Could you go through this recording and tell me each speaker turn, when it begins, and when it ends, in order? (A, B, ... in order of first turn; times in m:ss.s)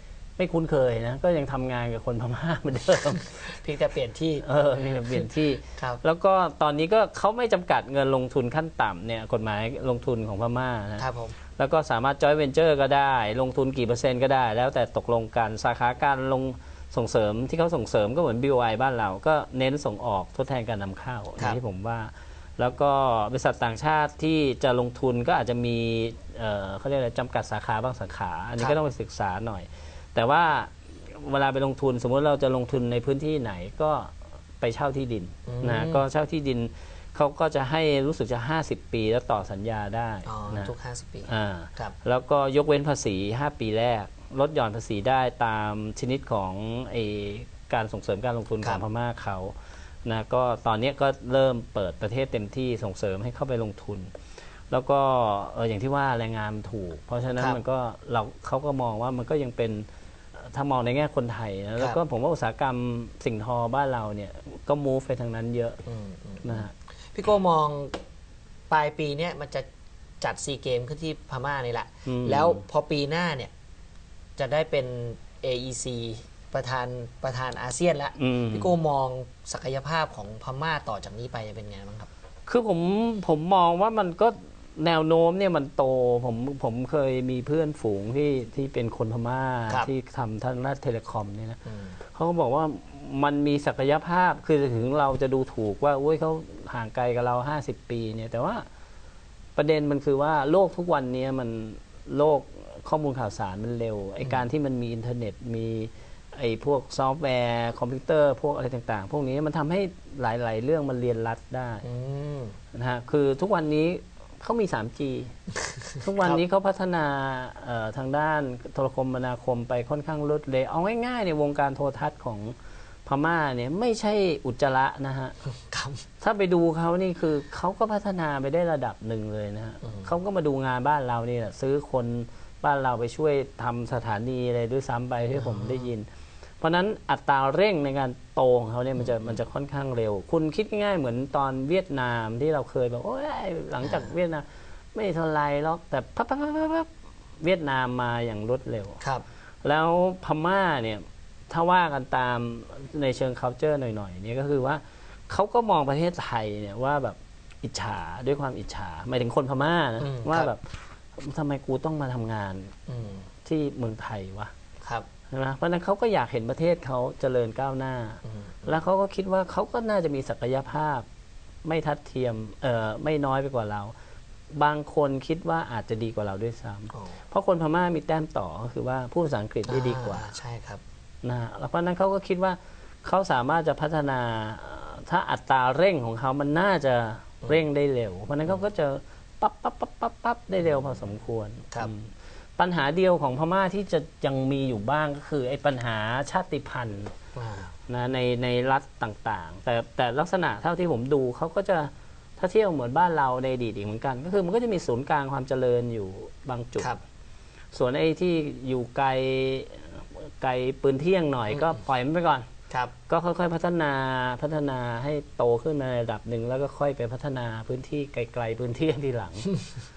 0:00.4-0:03.6 A
0:03.4-0:04.4 B
0:04.4-0:40.7 A
0:11.0-0:11.4 B
0:35.5-0:36.0 B
0:40.3-0:42.0 B
0:41.3-0:54.1 A
0:54.7-1:05.8 A
1:05.9-1:08.0 B
1:06.4-1:06.7 A
1:08.7-1:09.7 B
1:10.2-1:13.5 B
1:12.0-1:12.6 A
1:14.4-1:22.1 B
1:18.2-1:18.7 A
1:22.5-1:31.6 A
1:31.6-1:32.0 B
1:32.1-1:38.7 A
1:39.6-1:51.8 A
1:51.8-1:52.6 B
1:52.7-1:55.3 A
1:55.7-1:56.4 B
1:56.0-2:05.4 A
2:05.5-2:06.0 B
2:06.2-2:16.1 A
2:15.4-2:15.9 B
2:16.6-2:26.9 A
2:19.0-2:19.4 B
2:23.8-2:24.1 B
2:27.4-2:29.0 A
2:29.6-2:40.6 A
2:40.0-2:40.5 B
2:41.2-2:42.7 A
2:42.9-2:43.3 B
2:43.4-2:44.5 A
2:44.8-2:45.1 B
2:45.3-2:51.1 A
2:48.2-2:48.8 B
2:51.6-2:53.9 A
2:54.5-3:00.3 A
2:56.9-2:57.2 B
2:59.7-3:00.8 B
3:01.2-3:17.1 A
3:17.4-3:17.7 B
3:17.9-3:26.9 A
3:27.7-3:32.5 A
3:31.5-3:31.8 B
3:33.1-3:39.5 A